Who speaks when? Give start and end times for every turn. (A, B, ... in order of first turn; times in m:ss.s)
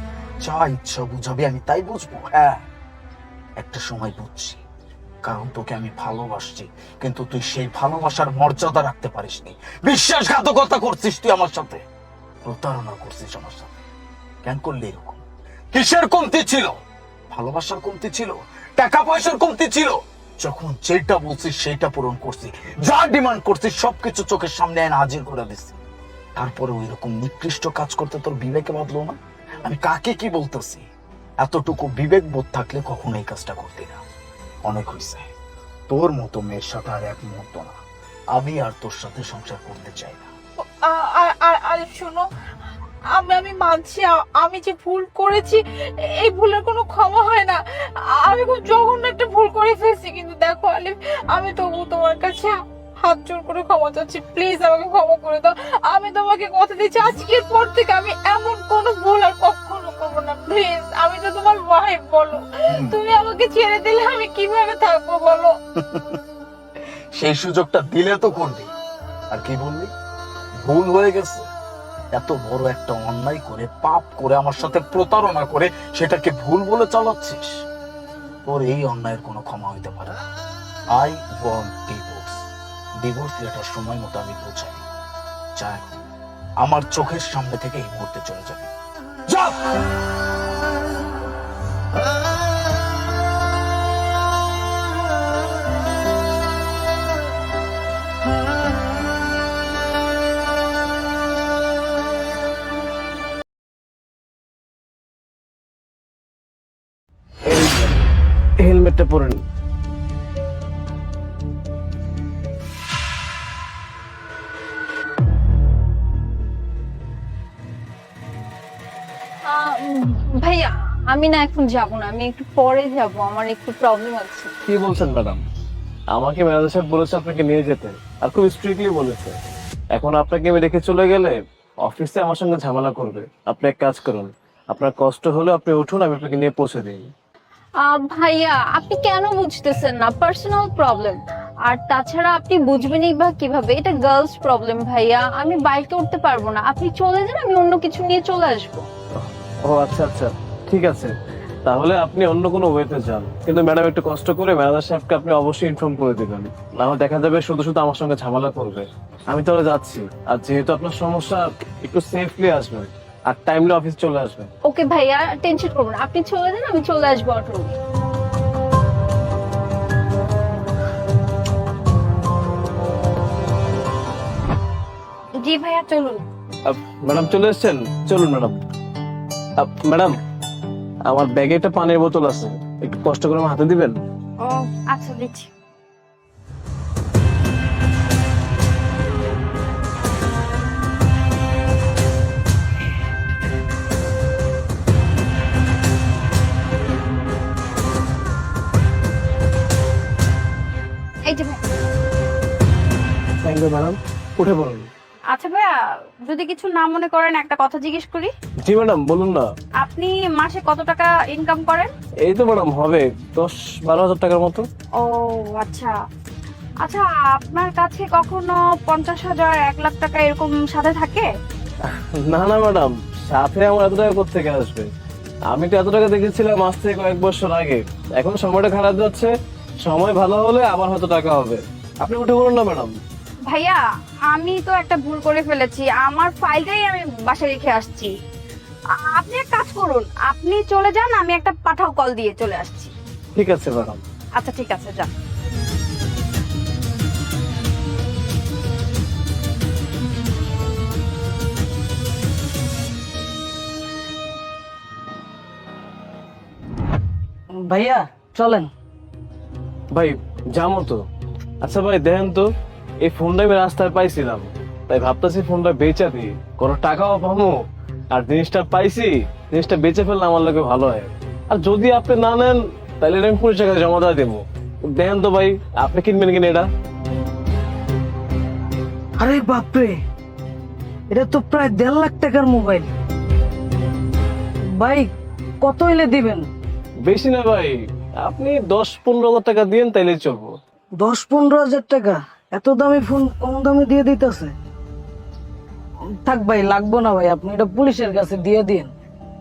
0:00.4-0:02.6 A
0:03.6-0:04.6 A
0:05.2-0:11.8 A
0:12.4-0:13.7 A
0:14.4-0:15.2 A
0:15.7-0:16.8 A
0:17.3-0:25.8 A
0:26.4-0:30.9 A
0:31.4-0:34.0 A
0:34.7-0:35.3 A
0:35.9-0:37.8 A
0:38.3-0:40.3 A
0:40.6-0:42.2 B
0:43.1-1:05.5 B
1:05.8-1:06.2 A
1:07.2-1:08.7 A
1:09.3-1:09.9 A
1:10.6-1:11.5 A
1:12.1-1:17.6 A
1:18.5-1:20.2 A
1:21.0-1:22.5 A
1:23.0-1:24.8 A
1:25.6-1:26.1 A
1:26.6-1:28.7 A
1:29.3-1:29.7 A
1:47.4-1:48.0 C
1:48.6-1:49.4 C
1:59.4-2:04.5 D
2:04.7-2:05.4 C
2:06.2-2:09.4 C
2:09.9-2:17.0 C
2:17.8-2:28.8 D
2:29.2-2:31.2 C
2:31.7-2:44.5 C
2:44.6-2:47.8 D
2:55.4-2:56.2 E
2:56.7-2:58.6 C
2:59.6-3:00.2 C
3:01.0-3:04.0 C
3:04.4-3:05.5 E
3:21.2-3:21.6 E
3:23.4-3:24.9 C
3:25.3-3:28.3 E
3:28.6-3:29.5 C
3:29.8-3:31.9 E
3:32.2-3:34.7 C
3:35.0-3:36.0 E
3:36.8-3:41.3 E
3:41.9-3:44.9 C
3:45.5-3:52.9 C
3:53.5-3:58.1 E
3:59.0-4:02.9 E
4:03.4-4:04.0 C
4:04.3-4:05.1 E
4:17.5-4:18.7 F
4:19.9-4:21.0 C
4:21.6-4:22.5 C
4:23.0-4:27.6 C
4:28.1-4:36.7 C
4:39.2-4:40.0 F
4:41.1-4:42.9 F
4:44.7-4:46.5 F
4:47.1-4:50.6 C
4:51.0-4:54.5 F
4:56.2-4:58.9 F